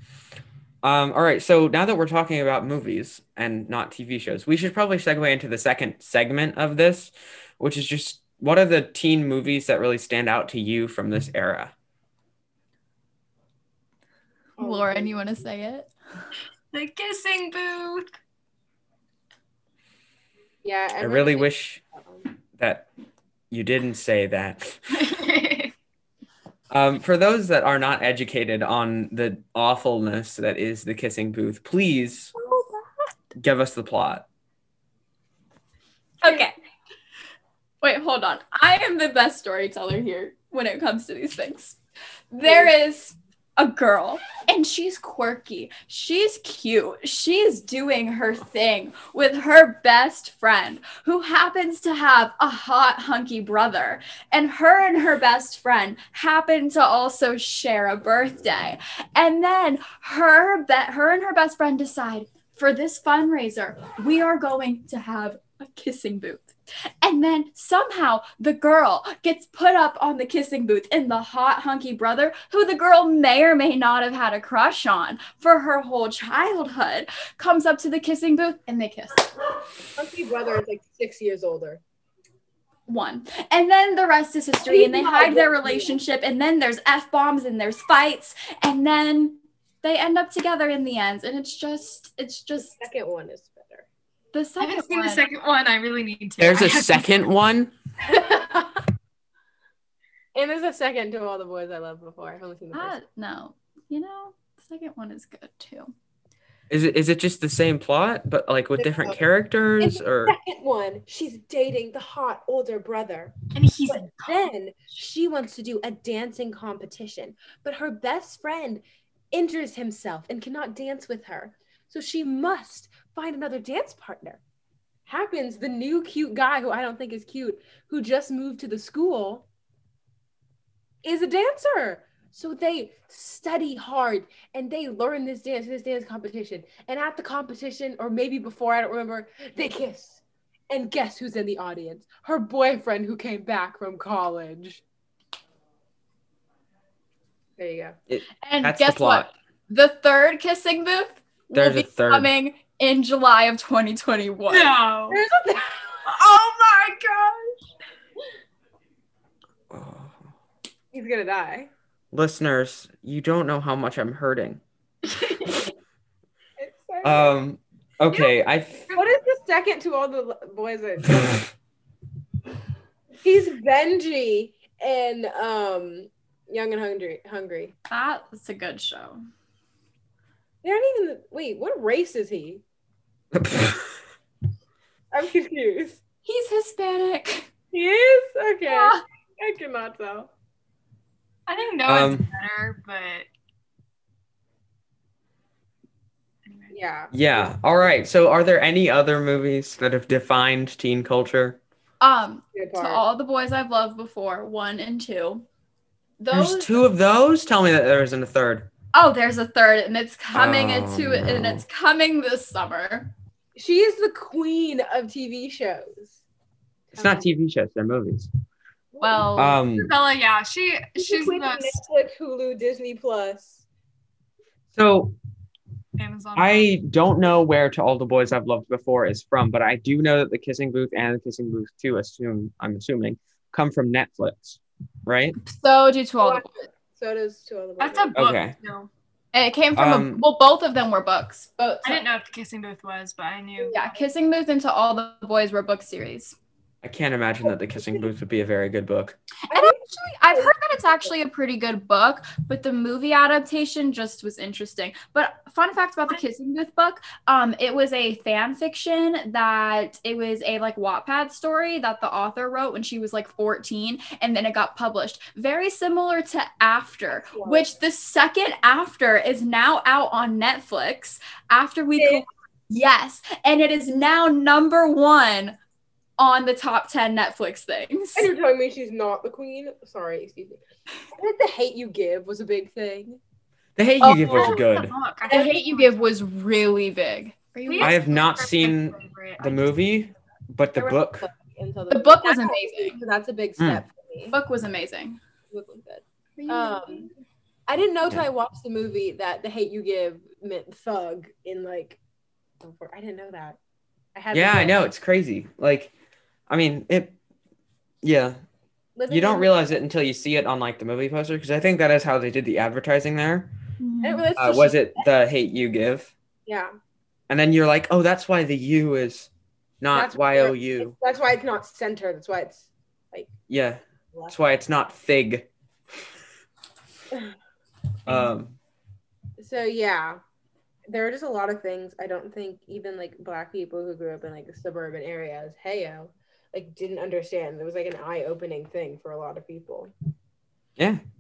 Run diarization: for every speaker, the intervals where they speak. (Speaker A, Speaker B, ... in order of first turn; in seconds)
Speaker A: 0.8-11.7, 21.0-21.8, 22.6-22.9, 23.5-25.0, 26.7-32.3, 33.4-34.2, 96.4-97.7, 106.7-110.4, 148.1-149.3, 151.5-152.3, 159.7-160.2, 162.1-164.6, 167.0-168.9, 183.3-183.9, 191.8-192.3, 197.1-201.6, 206.3-208.7, 210.3-211.6, 216.9-218.3, 219.3-219.9, 224.8-225.2, 226.4-235.4, 238.2-238.6, 239.8-240.2, 246.8-249.2, 283.8-284.9, 287.8-291.3, 304.3-305.9, 306.5-307.1, 308.0-308.4, 309.1-313.5, 314.4-316.1, 317.3-319.3, 319.8-320.9, 323.5-325.5, 328.1-328.6
Speaker B: 14.6-15.1, 20.6-22.3, 32.4-32.8, 42.5-42.7, 80.0-81.8, 84.7-86.0, 92.8-93.9, 98.0-98.8, 100.3-103.0, 108.8-109.2, 109.8-113.3, 113.9-124.4, 125.1-129.4, 131.0-144.8, 147.6-148.0, 155.1-156.4, 160.9-161.7, 166.6-167.3, 168.9-171.5, 173.2-177.8, 180.6-182.6, 185.1-186.0, 187.7-190.3, 196.7-197.6, 202.5-203.0, 213.6-216.2, 216.9-217.3, 218.9-219.4, 221.0-223.6, 236.2-238.1, 249.5-251.1, 267.3-267.6, 272.0-272.3, 278.1-280.6, 281.1-283.2, 285.3-285.6, 290.8-294.4, 295.5-297.1, 297.7-302.0, 302.6-303.6, 304.1-304.8, 309.0-309.5, 314.0-315.0, 316.5-316.7, 319.9-323.3, 329.4-330.2, 330.9-339.9
Speaker C: 14.6-15.9, 36.2-36.5, 37.8-41.8, 42.3-79.3, 82.9-92.8, 94.3-95.3, 102.7-105.9, 148.4-154.8, 177.9-179.2, 186.2-187.5, 188.7-189.0, 202.0-205.4, 206.2-206.8, 208.9-213.1, 219.0-219.6, 235.4-236.6, 239.3-242.0, 243.7-246.4, 249.5-275.6, 276.2-278.3, 284.0-284.5, 285.3-288.0, 291.9-293.0, 294.3-295.2, 296.4-297.1, 313.8-314.3
Speaker D: 16.7-18.1, 24.9-25.7, 94.6-97.3, 113.5-114.5, 154.5-155.2, 156.1-157.3, 165.1-165.7, 168.1-169.2, 191.5-193.3, 196.5-196.7, 219.7-221.8, 226.0-226.7, 237.8-238.9, 241.8-243.7, 284.1-286.0, 287.7-289.7